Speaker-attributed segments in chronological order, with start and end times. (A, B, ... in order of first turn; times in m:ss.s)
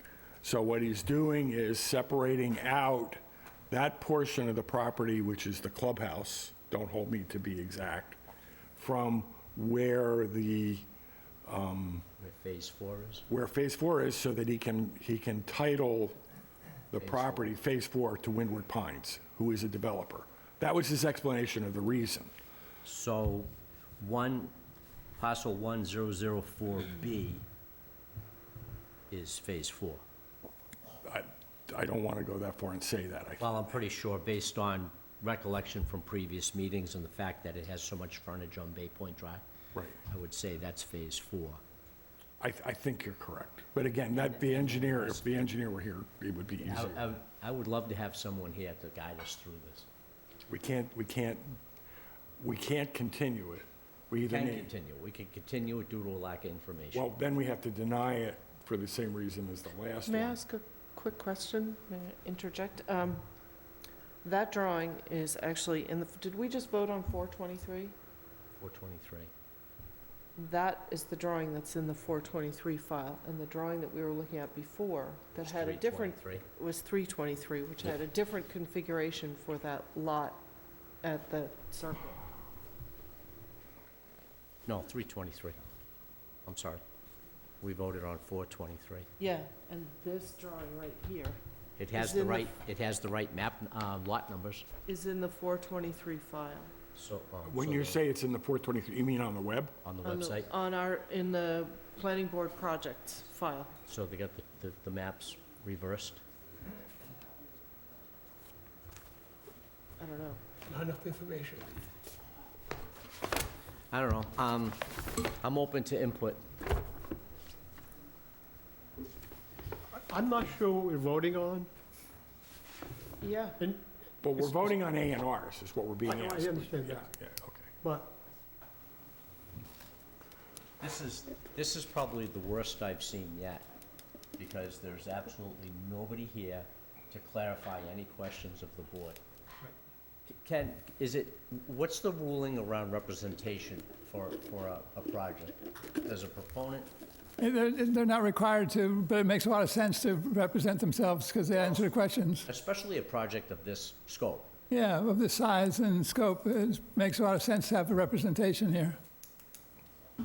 0:00.4-0:08.2 A
0:08.8-0:10.9 A
0:11.4-0:12.0 A
0:12.2-0:13.3 B
0:13.3-0:16.2 A
0:16.9-0:22.3 A
0:17.0-0:17.6 B
0:22.8-0:24.5 B
0:25.2-0:27.4 B
0:29.1-0:30.0 B
0:31.0-0:33.5 A
0:33.4-0:39.4 B
0:40.1-0:41.6 B
0:42.4-0:47.0 A
0:44.1-0:45.6 B
0:46.7-0:49.9 B
0:50.5-0:51.6 A
0:52.4-0:54.7 A
0:54.3-0:57.1 B
0:56.9-1:00.4 A
1:00.1-1:03.2 C
1:04.2-1:07.9 C
1:08.6-1:09.3 B
1:10.4-1:20.4 C
1:15.4-1:16.5 B
1:21.0-1:22.2 C
1:24.7-1:25.7 B
1:26.5-1:26.8 B
1:27.6-1:29.1 B
1:29.2-1:31.4 C
1:31.8-1:34.7 B
1:31.9-1:32.5 C
1:34.9-1:36.7 C
1:37.0-1:38.0 B
1:37.5-1:39.8 A
1:39.8-1:40.5 B
1:40.0-1:43.8 C
1:43.9-1:46.2 B
1:50.0-1:50.4 C
1:50.7-1:51.7 D
1:53.9-1:56.4 B
2:00.0-2:01.7 D
2:03.2-2:03.6 C
2:04.2-2:07.7 A
2:04.4-2:04.7 D
2:06.1-2:07.1 D
2:07.8-2:08.1 D
2:10.8-2:13.6 B
2:14.4-2:19.2 B
2:20.3-2:26.9 B
2:27.4-2:32.5 E
2:32.5-2:34.5 B
2:34.7-2:39.0 E